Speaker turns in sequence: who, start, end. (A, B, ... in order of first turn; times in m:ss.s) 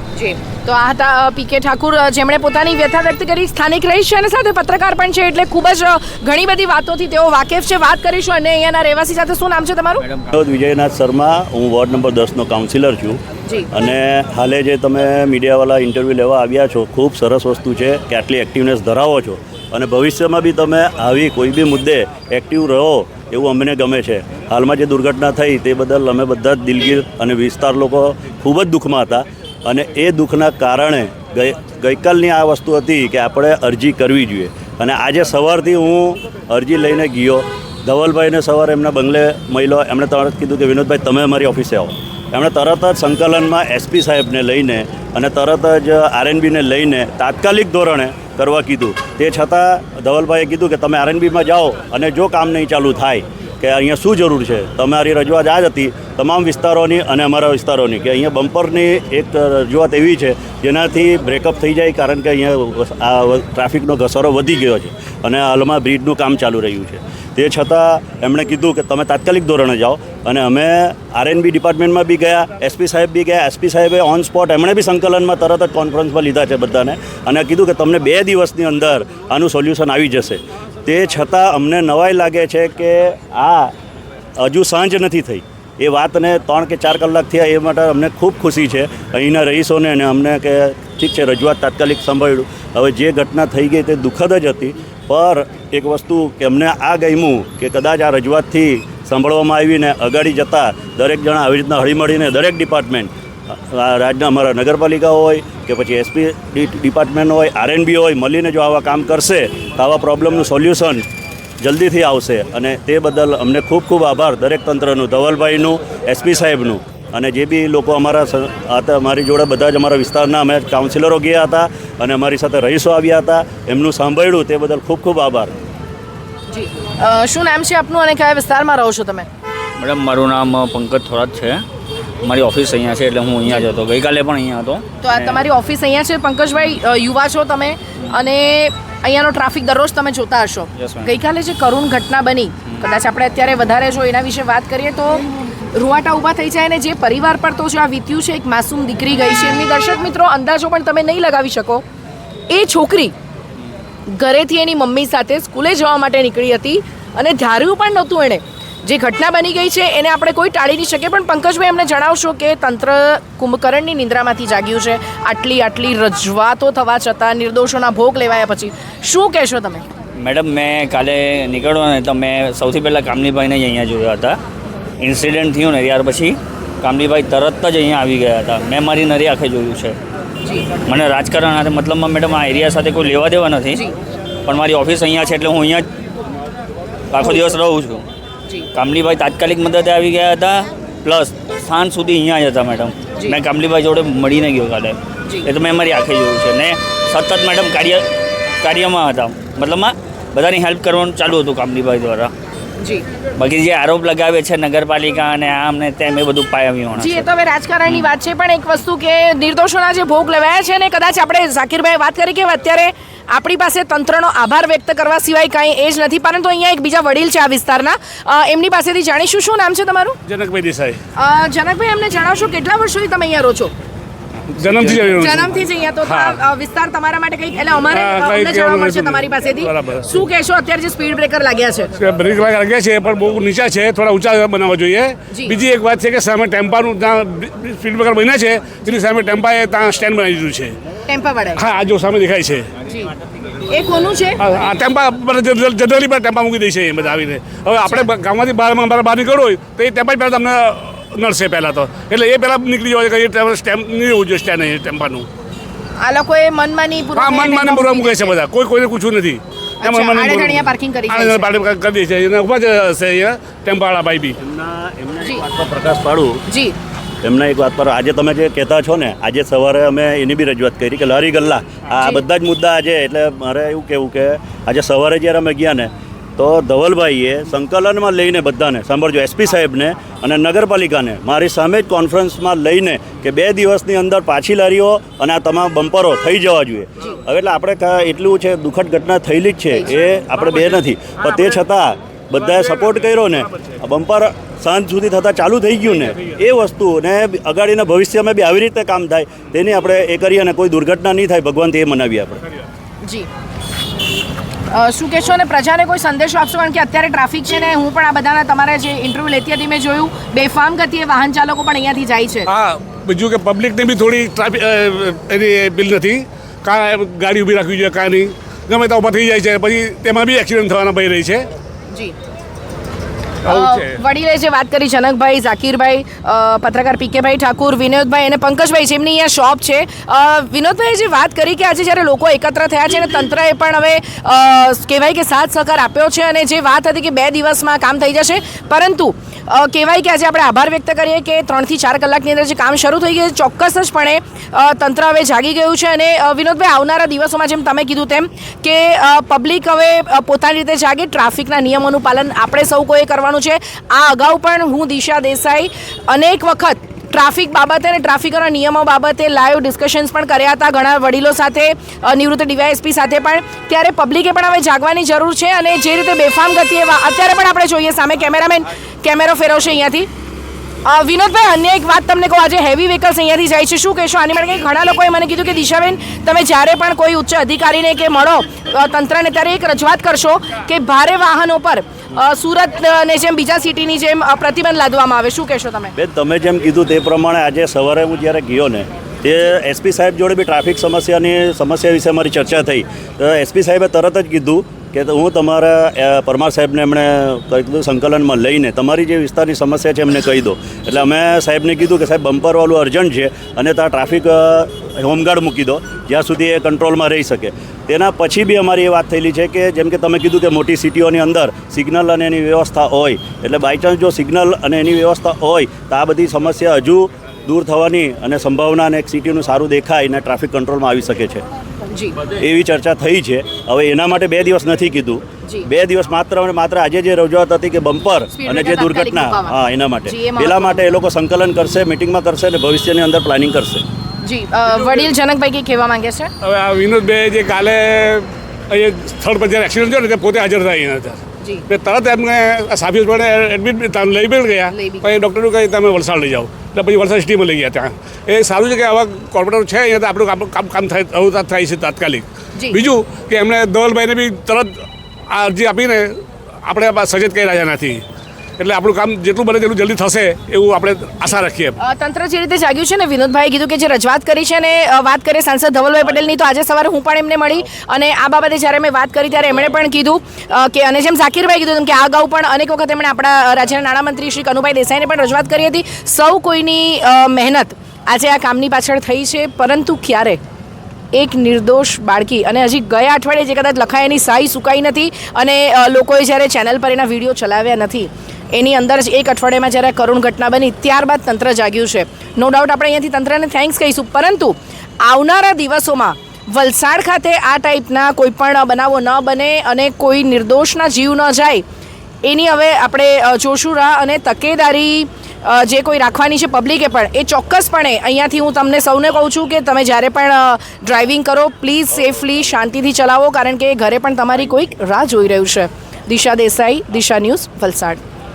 0:00.1-0:10.0 A
0:10.3-0:13.2 B
0:13.7-1:23.7 B
1:24.4-1:51.0 B
1:51.6-2:05.5 B
2:06.5-2:09.3 A
2:09.8-2:11.6 C
2:12.2-2:15.4 C
2:15.0-2:31.8 A
2:20.8-2:21.1 C
2:32.5-2:33.1 A
2:34.1-2:49.8 A
2:50.2-2:54.4 C
2:55.0-3:00.0 C
3:00.8-3:03.8 C
3:04.4-3:05.8 C
3:07.1-3:08.0 C
3:08.7-3:18.1 C
3:18.6-3:22.3 C
3:23.4-3:27.2 C
3:26.9-3:40.2 A
3:40.3-3:41.0 D
3:41.2-3:43.7 A
3:44.6-3:46.4 D
3:44.8-3:52.0 A
3:47.9-3:50.0 D
3:52.0-4:00.7 D
3:55.3-3:55.6 A
4:01.1-4:01.6 A
4:01.6-4:02.7 D
4:03.7-4:04.4 A
4:04.4-4:15.2 D
4:07.8-4:08.1 A
4:16.0-4:18.3 A
4:17.2-4:24.4 D
4:19.8-4:21.5 A
4:24.4-4:26.4 B
4:26.5-4:26.8 A
4:27.2-5:02.4 B
5:03.0-5:03.3 A
5:04.7-5:12.5 A
5:12.5-5:21.4 D
5:23.4-6:10.1 A
5:23.5-5:23.8 D
6:10.8-6:25.9 A
6:26.0-7:01.4 B
7:01.9-7:02.2 A
7:02.3-7:13.8 B
7:08.3-7:10.8 A
7:14.2-7:16.3 A
7:16.4-7:21.2 D
7:21.7-7:34.7 D
7:24.7-7:25.1 A
7:35.3-7:36.1 D
7:36.6-7:38.0 D
7:38.6-7:41.8 D
7:41.8-8:00.4 A
8:01.1-8:21.6 A
8:22.2-8:38.0 A